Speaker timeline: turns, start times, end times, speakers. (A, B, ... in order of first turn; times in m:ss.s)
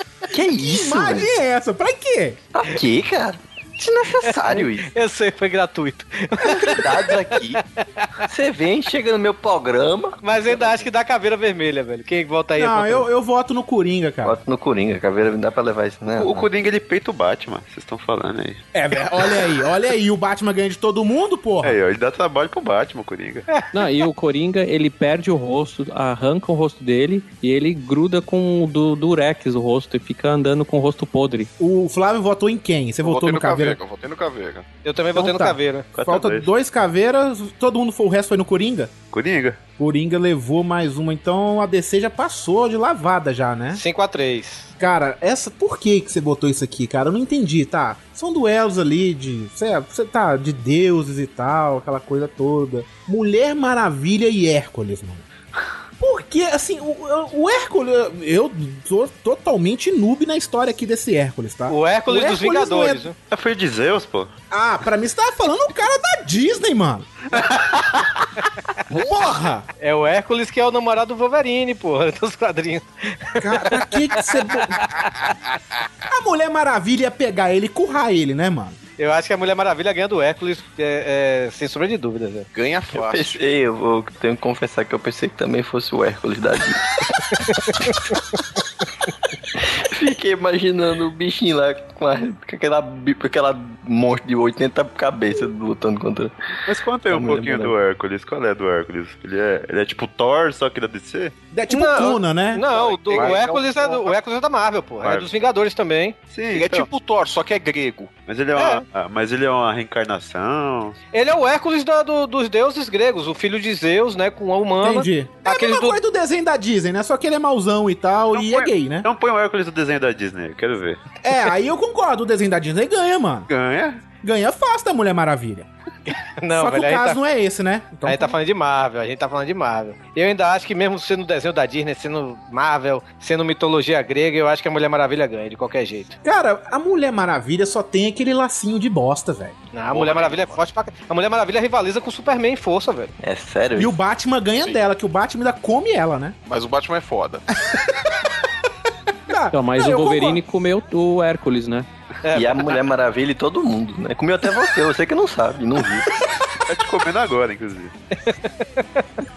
0:00.3-0:01.3 A
0:00.7-0:02.4 B
0:02.5-0:04.9 A
0:04.3-0:08.2 C
0:06.5-0:07.6 A
0:08.3-0:10.8 A
0:10.2-0:13.1 C
0:12.6-0:14.4 B
0:14.2-0:16.5 A
0:16.1-0:18.6 D
0:18.7-0:21.8 B
0:21.6-0:23.5 D
0:23.7-0:31.5 E
0:31.6-0:33.8 B
0:33.0-0:34.7 F
0:34.8-0:35.9 C
0:35.2-0:38.9 B
0:36.0-0:36.5 D
0:39.1-0:39.6 D
0:39.8-0:43.8 B
0:43.7-0:44.7 C
0:44.8-0:55.2 B
0:56.0-1:03.1 B
1:01.7-1:03.2 C
1:03.3-1:04.3 D
1:04.5-1:07.2 B
1:07.4-1:07.8 D
1:08.9-1:09.7 B
1:09.8-1:15.1 C
1:13.4-1:14.9 B
1:16.1-1:18.8 B
1:19.0-1:22.5 C
1:22.5-1:23.4 F
1:22.9-1:26.8 A
1:27.5-1:28.2 C
1:29.9-1:36.3 A
1:36.7-1:41.4 D
1:37.1-1:37.8 A
1:41.5-1:42.6 B
1:41.7-1:46.2 C
1:42.6-1:44.2 F
1:45.0-1:45.3 D
1:46.3-1:46.9 D
1:46.5-1:48.2 F
1:48.2-1:51.0 D
1:48.6-1:48.8 C
1:51.1-1:56.0 C
1:54.8-1:59.1 B
1:58.3-2:01.0 D
2:01.2-2:03.5 B
2:03.5-2:04.0 D
2:04.2-2:05.7 B
2:06.1-2:07.2 C
2:06.5-2:08.4 B
2:08.0-2:16.2 C
2:16.2-2:19.6 B
2:19.7-2:23.1 C
2:19.9-2:20.6 F
2:23.2-2:24.0 A
2:23.8-2:26.4 B
2:26.5-2:27.4 F
2:27.7-2:28.1 B
2:29.3-2:30.4 B
2:29.5-2:31.9 E
2:32.2-2:32.8 C
2:32.3-2:36.1 A
2:36.7-2:37.9 D
2:38.3-2:39.0 C